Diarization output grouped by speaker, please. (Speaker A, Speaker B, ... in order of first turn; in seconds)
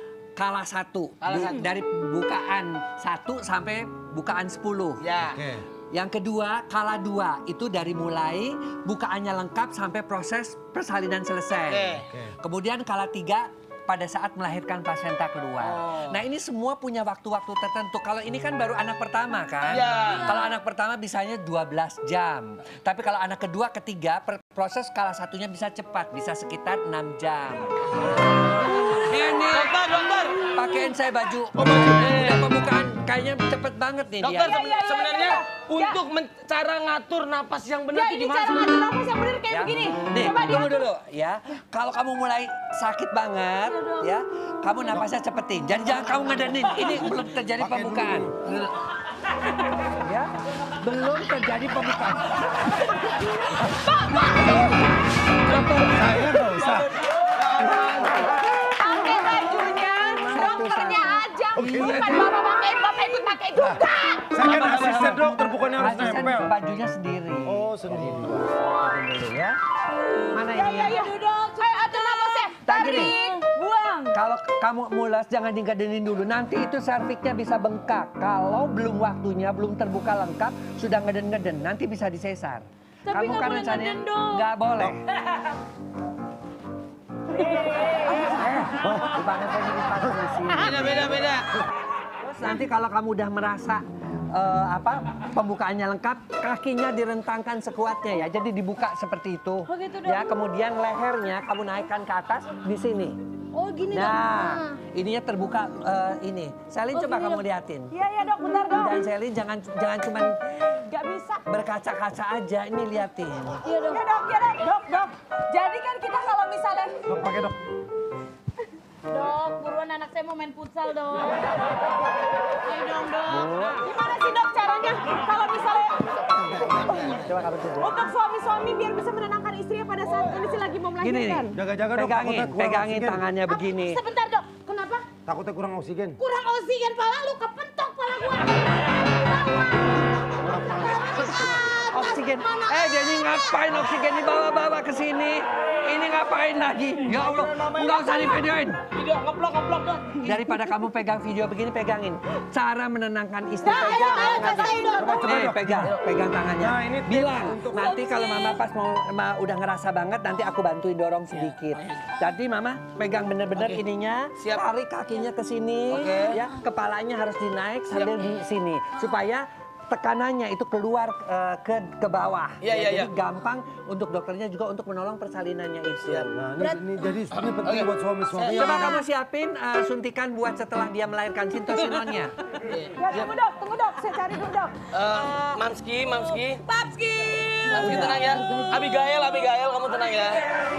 Speaker A: 0.3-5.0, 5.9-29.8, 30.4-34.6, 39.5-48.3, 49.8-52.8, 55.5-56.3, 60.1-62.3, 65.8-69.5, 70.3-71.0, 72.6-73.2, 74.1-85.0, 88.3-91.2, 92.2-103.2, 103.9-107.9, 108.7-110.3, 111.5-113.6, 123.2-123.8, 127.1-127.9, 131.0-134.0, 141.9-148.8, 150.2-176.3, 178.5-182.3, 187.8-188.2
Speaker B: 1.2-1.6, 5.0-5.4, 11.7-12.1, 15.6-16.2, 19.7-20.3, 29.5-30.4, 31.6-32.5, 34.2-38.9, 56.5-58.3, 64.4-65.3, 90.5-91.5, 147.1-148.4, 148.9-150.2, 154.0-154.8, 161.3-162.1, 163.5-163.8, 164.4-164.6, 165.9-166.4, 167.9-168.3, 172.6-173.1, 177.3-178.8, 182.7-183.3, 184.9-186.6, 187.7-190.4
Speaker C: 5.2-5.6, 12.1-12.3, 47.6-48.3, 54.4-54.7, 55.7-56.9, 63.6-66.5, 67.5-68.5, 88.8-89.1, 117.1-117.6, 131.5-133.2, 135.2-136.2, 140.4-141.6, 154.9-155.9, 156.6-158.0, 176.3-179.0, 187.8-188.1
Speaker D: 34.4-36.0, 37.9-40.9, 53.6-54.6, 58.6-64.3, 70.5-73.4, 107.9-109.0, 110.9-111.4, 113.9-117.0, 123.8-126.0, 127.8-131.5, 133.6-134.5, 139.2-139.7, 153.6-155.4, 183.0-184.8, 186.7-187.5
Speaker E: 70.9-74.1, 83.1-84.4, 99.7-100.3, 103.5-104.7, 106.9-107.4, 113.7-114.0, 119.1-121.5, 122.7-123.4, 134.6-135.0, 136.2-138.6, 142.8-143.5, 157.9-158.6, 186.9-187.7